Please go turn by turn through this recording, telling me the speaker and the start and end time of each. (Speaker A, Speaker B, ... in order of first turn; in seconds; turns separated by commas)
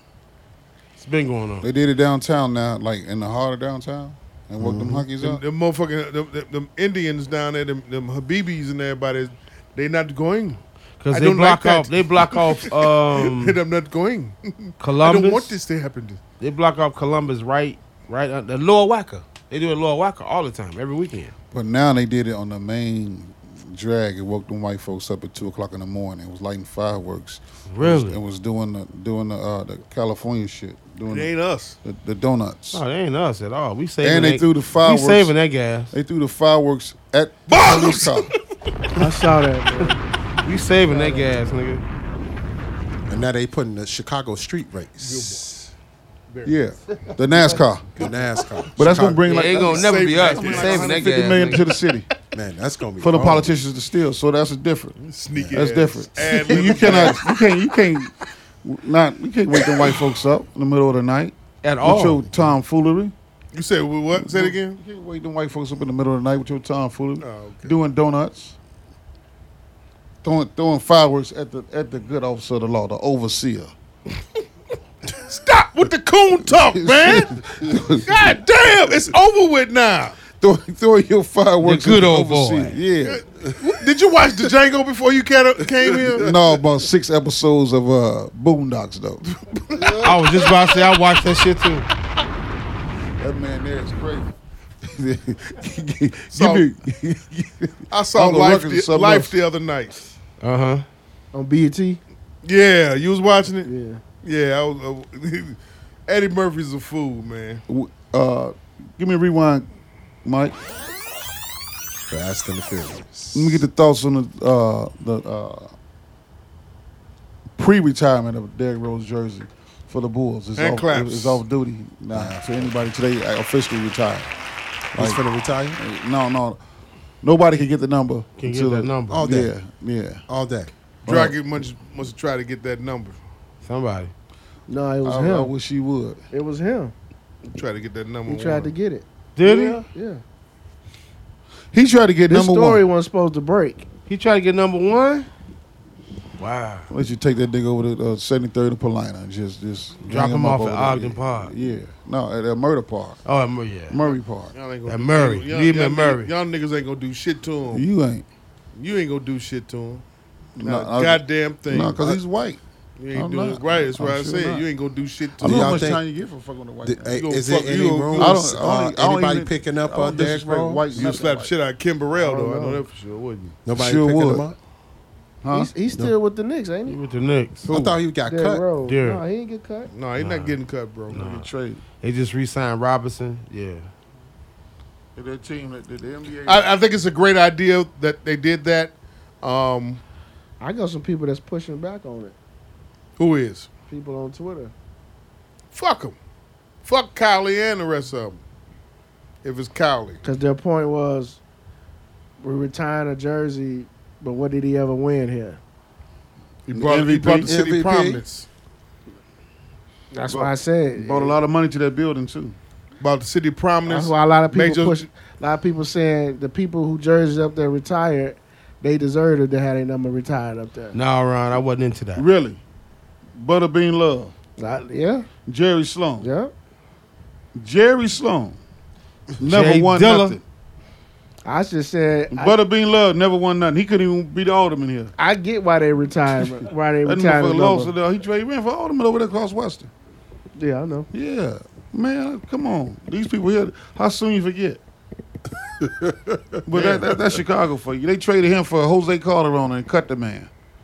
Speaker A: 1.0-1.6, Speaker B: 1.6-5.4, Speaker C: 4.6-5.0, Speaker D: 5.1-10.6, Speaker A: 11.0-13.6, Speaker D: 11.1-16.2, Speaker A: 14.8-15.5, Speaker A: 16.4-21.3, Speaker B: 21.5-31.3, Speaker A: 27.7-28.2, Speaker D: 31.1-31.8, Speaker B: 31.8-32.8, Speaker A: 32.7-35.9, Speaker B: 34.0-35.3, Speaker B: 35.9-38.3, Speaker D: 37.5-38.3, Speaker E: 39.0-40.0, Speaker A: 40.4-41.8, Speaker C: 43.1-45.7, Speaker D: 45.0-45.5, Speaker D: 46.3-46.6, Speaker B: 46.4-47.9, Speaker D: 47.4-48.7, Speaker C: 48.0-49.8, Speaker B: 48.8-52.1, Speaker A: 49.2-51.8, Speaker D: 49.5-51.2, Speaker C: 52.3-53.5, Speaker B: 53.0-55.0, Speaker D: 55.0-57.3, Speaker C: 55.3-55.7, Speaker B: 55.5-63.1, Speaker A: 61.6-62.2, Speaker D: 63.5-64.8, Speaker B: 64.1-68.5, Speaker D: 67.2-67.7, Speaker B: 70.2-73.7, Speaker D: 75.1-77.5, Speaker B: 76.5-78.4, Speaker D: 78.0-80.2, Speaker B: 80.3-83.2, Speaker A: 81.6-82.8, Speaker D: 83.6-86.4, Speaker B: 86.2-89.2, Speaker D: 89.4-90.1, Speaker B: 89.8-90.1, Speaker A: 90.0-91.9, Speaker B: 93.2-99.3, Speaker D: 96.3-96.6, Speaker D: 97.9-100.1, Speaker A: 100.4-100.8, Speaker E: 101.3-102.0, Speaker D: 102.4-103.7, Speaker E: 103.6-104.0, Speaker D: 104.2-107.6, Speaker B: 107.7-109.7, Speaker B: 110.2-110.5, Speaker C: 112.1-113.6, Speaker B: 113.3-115.7, Speaker B: 117.5-124.3, Speaker D: 120.5-121.4, Speaker C: 122.1-122.7, Speaker B: 124.9-125.2, Speaker C: 124.9-125.8, Speaker B: 125.7-126.6, Speaker B: 127.2-130.2, Speaker A: 128.4-129.3, Speaker C: 129.1-129.5, Speaker C: 130.3-130.7, Speaker B: 131.1-131.3, Speaker D: 131.1-133.2, Speaker A: 133.6-134.1, Speaker E: 134.7-135.5, Speaker B: 135.0-136.2, Speaker E: 136.3-136.9, Speaker D: 137.5-138.7, Speaker E: 138.3-140.2, Speaker A: 139.3-139.8, Speaker B: 141.7-142.8, Speaker E: 142.3-143.8, Speaker A: 144.1-145.3, Speaker A: 146.4-146.9, Speaker B: 146.9-153.2, Speaker A: 150.1-151.5, Speaker A: 153.2-154.0, Speaker B: 153.9-154.5, Speaker D: 154.5-157.8, Speaker A: 154.8-156.3, Speaker B: 157.7-158.2, Speaker D: 158.7-160.0, Speaker B: 160.6-162.6, Speaker D: 160.6-162.1, Speaker D: 163.0-165.9, Speaker B: 163.1-164.7, Speaker B: 165.4-171.5, Speaker C: 165.4-166.0, Speaker C: 166.8-171.2, Speaker D: 167.1-168.4, Speaker D: 170.9-173.6, Speaker E: 172.2-172.8, Speaker C: 173.6-174.6, Speaker B: 173.7-174.5, Speaker B: 175.4-175.7, Speaker E: 175.5-177.0, Speaker A: 176.8-177.9, Speaker C: 177.7-178.7, Speaker E: 178.2-179.9, Speaker A: 178.8-179.2, Speaker D: 179.9-181.2, Speaker A: 180.2-180.6, Speaker A: 181.1-181.5, Speaker B: 181.1-181.8, Speaker A: 182.0-183.9, Speaker B: 185.2-186.7, Speaker D: 186.4-190.0, Speaker E: 190.6-192.3, Speaker D: 193.2-193.7, Speaker E: 193.9-194.7, Speaker D: 195.7-196.2, Speaker D: 196.8-198.4, Speaker D: 199.4-200.2, Speaker E: 200.2-201.4, Speaker E: 202.4-205.6, Speaker D: 206.7-208.5, Speaker B: 206.7-207.5, Speaker C: 207.4-208.2, Speaker E: 210.1-211.4, Speaker B: 210.3-212.6, Speaker D: 213.0-215.1, Speaker E: 213.8-221.0, Speaker A: 220.9-222.3, Speaker B: 222.1-222.6, Speaker B: 223.3-224.3, Speaker E: 224.6-225.3, Speaker B: 225.4-226.3, Speaker E: 226.2-226.5, Speaker B: 227.6-228.6, Speaker B: 229.4-230.4, Speaker A: 229.4-230.4, Speaker E: 231.4-232.6, Speaker B: 232.3-235.1, Speaker E: 235.2-237.9, Speaker B: 237.1-239.9, Speaker E: 240.6-241.1, Speaker B: 241.1-244.8, Speaker C: 245.8-247.1, Speaker B: 246.7-250.5